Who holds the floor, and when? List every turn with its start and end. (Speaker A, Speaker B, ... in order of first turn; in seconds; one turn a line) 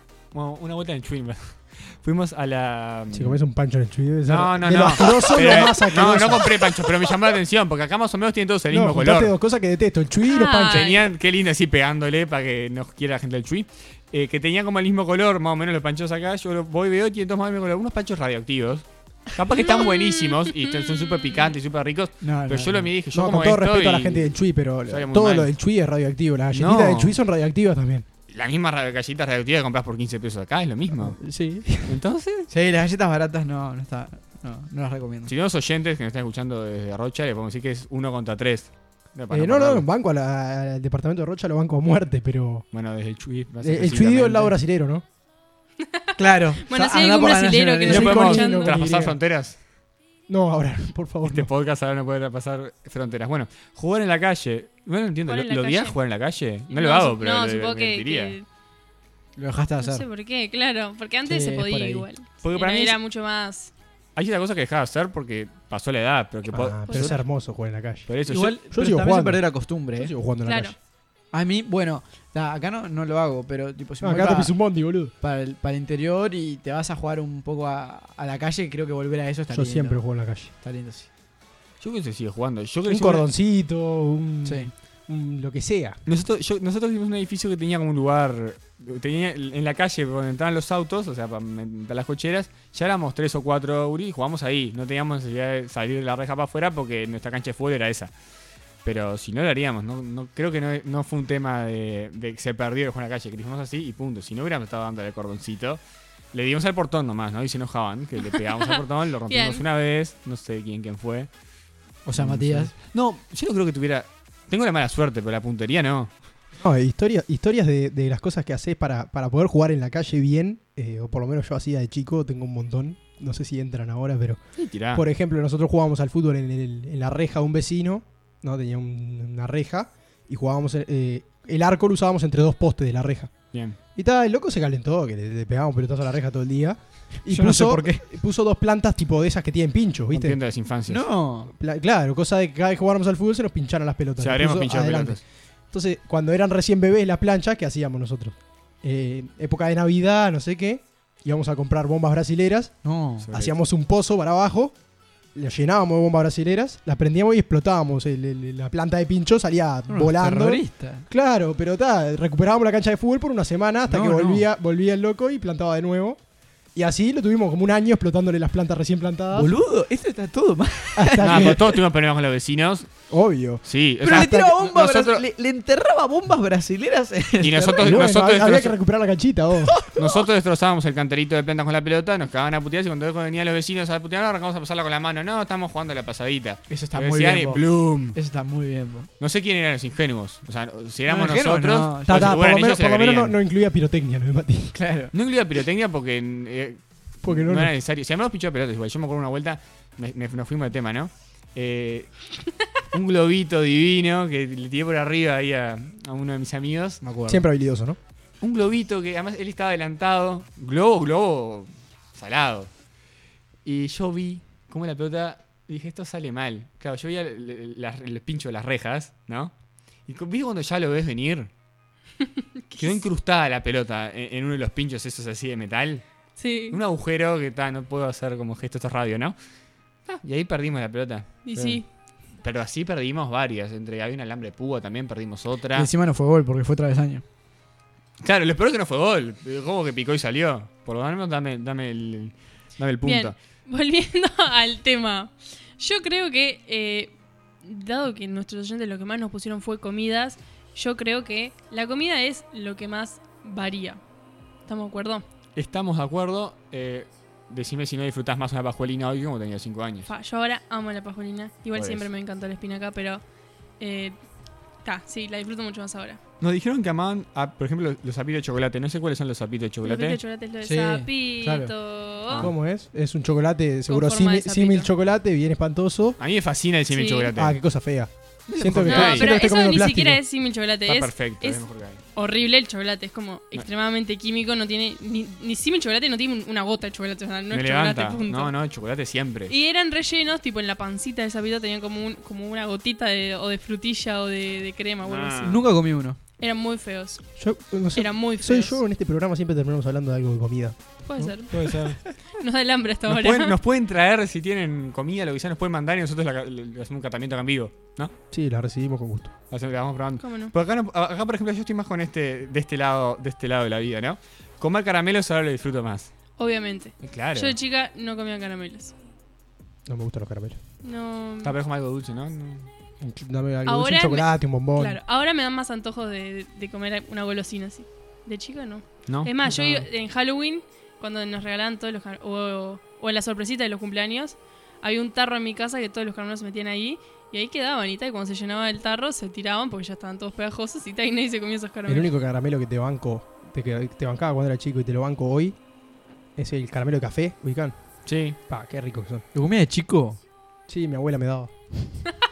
Speaker A: 0.3-3.4
Speaker B: 3.1-7.0
Speaker A: 4.2-9.3
Speaker B: 8.7-10.9
Speaker C: 10.3-11.1
Speaker A: 10.6-24.3
Speaker C: 19.5-21.5
Speaker D: 22.2-22.9
Speaker B: 23.1-28.1
Speaker A: 24.9-25.5
Speaker A: 26.5-27.2
Speaker A: 28.3-31.2
Speaker B: 31.0-32.0
Speaker A: 31.8-32.5
Speaker D: 32.5-35.3
Speaker A: 35.2-39.9
Speaker B: 39.3-42.6
Speaker A: 42.7-44.5
Speaker B: 43.6-45.0
Speaker C: 45.8-48.8
Speaker D: 46.2-48.4
Speaker B: 47.9-49.2
Speaker A: 47.9-49.6
Speaker B: 50.3-51.5
Speaker A: 51.2-58.4
Speaker C: 55.3-56.0
Speaker C: 56.7-58.5
Speaker D: 59.4-60.1
Speaker C: 59.8-63.7
Speaker D: 61.2-62.0
Speaker A: 62.4-63.0
Speaker A: 64.2-67.2
Speaker B: 66.5-68.1
Speaker C: 66.9-67.1
Speaker A: 68.1-68.6
Speaker D: 68.2-70.1
Speaker B: 68.7-69.4
Speaker B: 70.0-70.7
Speaker C: 70.4-70.7
Speaker D: 71.3-74.5
Speaker B: 74.0-75.1
Speaker D: 75.2-81.1
Speaker B: 79.5-80.5
Speaker A: 81.8-83.3
Speaker B: 82.9-86.0
Speaker D: 84.5-84.7
Speaker A: 86.0-98.1
Speaker A: 98.8-105.8
Speaker A: 106.3-111.3
Speaker C: 108.3-109.6
Speaker D: 112.0-112.7
Speaker A: 112.2-116.1
Speaker B: 116.6-124.4
Speaker A: 124.6-125.0
Speaker B: 124.9-133.3
Speaker B: 133.9-140.4
Speaker D: 137.3-138.0
Speaker A: 140.1-141.0
Speaker D: 140.9-141.5
Speaker B: 141.5-152.7
Speaker A: 144.2-145.2
Speaker D: 152.8-153.3
Speaker A: 153.2-153.5
Speaker B: 153.3-154.7
Speaker B: 155.3-166.2
Speaker D: 159.9-161.0
Speaker D: 163.9-164.4
Speaker B: 166.7-169.5
Speaker D: 169.3-171.7
Speaker B: 170.9-171.6
Speaker A: 171.2-172.9
Speaker B: 173.1-174.3
Speaker A: 173.6-175.2
Speaker D: 174.0-178.0
Speaker A: 177.4-178.7
Speaker B: 177.8-179.8
Speaker D: 179.6-180.2
Speaker A: 179.9-188.2
Speaker D: 186.7-187.6
Speaker D: 188.1-189.1
Speaker A: 189.2-193.3
Speaker D: 191.1-192.3
Speaker B: 192.1-194.8
Speaker D: 194.7-195.1
Speaker A: 195.1-202.1
Speaker B: 197.2-197.7
Speaker A: 202.9-207.0
Speaker D: 207.0-207.4
Speaker B: 207.3-208.0
Speaker A: 208.4-212.7
Speaker A: 213.6-219.5
Speaker A: 220.1-221.5
Speaker C: 222.2-223.0
Speaker A: 222.8-226.0
Speaker C: 226.4-226.8
Speaker A: 226.7-229.3
Speaker A: 230.1-231.8
Speaker C: 231.4-231.8
Speaker A: 232.4-235.9
Speaker D: 235.7-237.2
Speaker A: 238.2-243.3
Speaker C: 243.0-254.0
Speaker C: 254.7-255.2
Speaker A: 255.5-260.1
Speaker C: 260.1-263.2
Speaker A: 261.7-262.1
Speaker C: 263.8-264.1
Speaker C: 264.8-266.2
Speaker A: 266.4-270.2
Speaker C: 269.8-272.4
Speaker D: 270.6-271.7
Speaker B: 272.3-276.2
Speaker C: 273.9-274.9
Speaker A: 276.2-277.6
Speaker C: 276.9-277.3
Speaker B: 277.3-280.2
Speaker A: 278.5-279.3
Speaker C: 278.9-288.5
Speaker A: 280.9-282.0
Speaker A: 287.5-289.5
Speaker C: 289.5-295.5
Speaker A: 295.0-295.6
Speaker D: 295.4-296.2
Speaker C: 296.4-297.2
Speaker B: 297.4-301.3
Speaker C: 297.9-298.8
Speaker C: 301.1-303.6
Speaker A: 301.5-302.1
Speaker A: 303.1-308.1
Speaker B: 308.3-309.3
Speaker A: 309.5-316.1
Speaker C: 310.2-310.5
Speaker C: 316.4-318.9
Speaker A: 317.0-317.6
Speaker B: 319.9-320.6
Speaker C: 320.8-321.5
Speaker A: 321.4-322.7
Speaker B: 323.0-325.0
Speaker C: 323.6-342.1
Speaker A: 329.1-329.3
Speaker B: 329.4-329.8
Speaker B: 341.9-345.6
Speaker B: 346.4-347.8
Speaker A: 348.1-348.4
Speaker B: 348.5-349.2
Speaker D: 349.3-350.2
Speaker B: 350.7-351.9